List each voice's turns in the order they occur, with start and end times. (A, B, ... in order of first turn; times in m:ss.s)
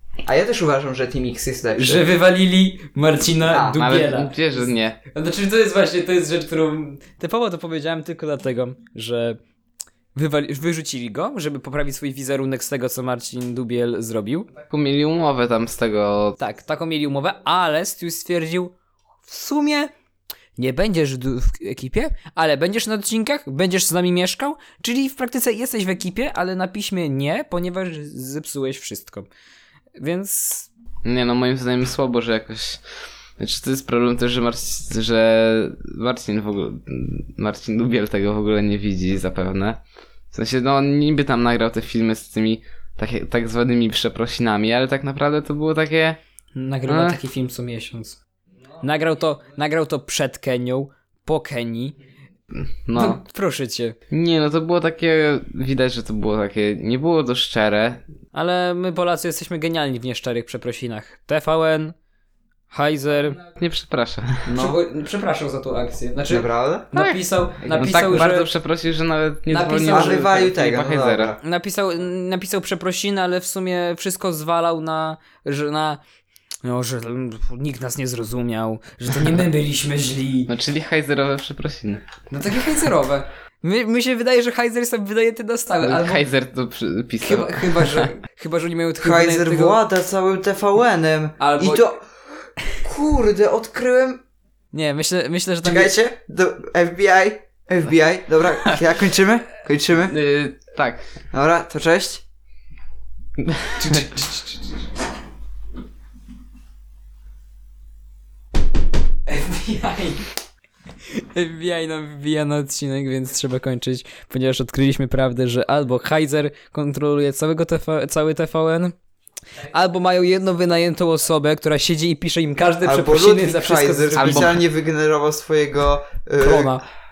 0:00.2-0:02.1 A
0:01.8-0:04.6 B
0:03.5-0:03.8 A
0:03.7-0:05.0 C
0:05.1-0:09.4 B
0:10.1-0:14.5 B
0:14.7-0:16.4 C
0:16.4-0:18.7 B
0:19.3-0:19.9 B
0:20.6-0:29.3 B
0:30.0-0:30.7 B
0:31.0-0:32.8 C
0:33.4-0:39.8 C
0:40.3-0:46.2 C
0:46.5-0:48.2 B
0:46.9-0:47.2 C
0:48.8-0:52.0 B
0:52.5-0:53.2 C
0:53.0-0:54.0 B
0:54.1-0:58.0 C
0:58.3-1:01.9 B
1:02.7-1:03.4 B
1:03.5-1:04.4 C
1:04.4-1:08.5 B
1:04.5-1:04.8 A
1:06.3-1:06.9 A
1:06.9-1:11.3 C
1:09.5-1:10.3 B
1:09.9-1:11.4 A
1:11.4-1:16.0 B
1:16.6-1:20.5 B
1:20.5-1:22.0 C
1:22.3-1:26.2 B
1:25.8-1:28.1 C
1:27.2-1:29.8 B
1:29.0-1:32.1 A
1:31.4-1:31.9 B
1:32.7-1:34.2 A
1:34.7-1:35.9 B
1:35.6-1:40.2 A
1:40.1-1:41.0 C
1:41.3-1:42.2 A
1:43.4-1:44.0 C
1:43.8-1:44.5 B
1:49.3-1:50.2 B
1:51.3-1:58.9 B
1:59.7-2:04.6 B
2:02.8-2:06.7 A
2:04.2-2:04.5 C
2:06.4-2:06.8 B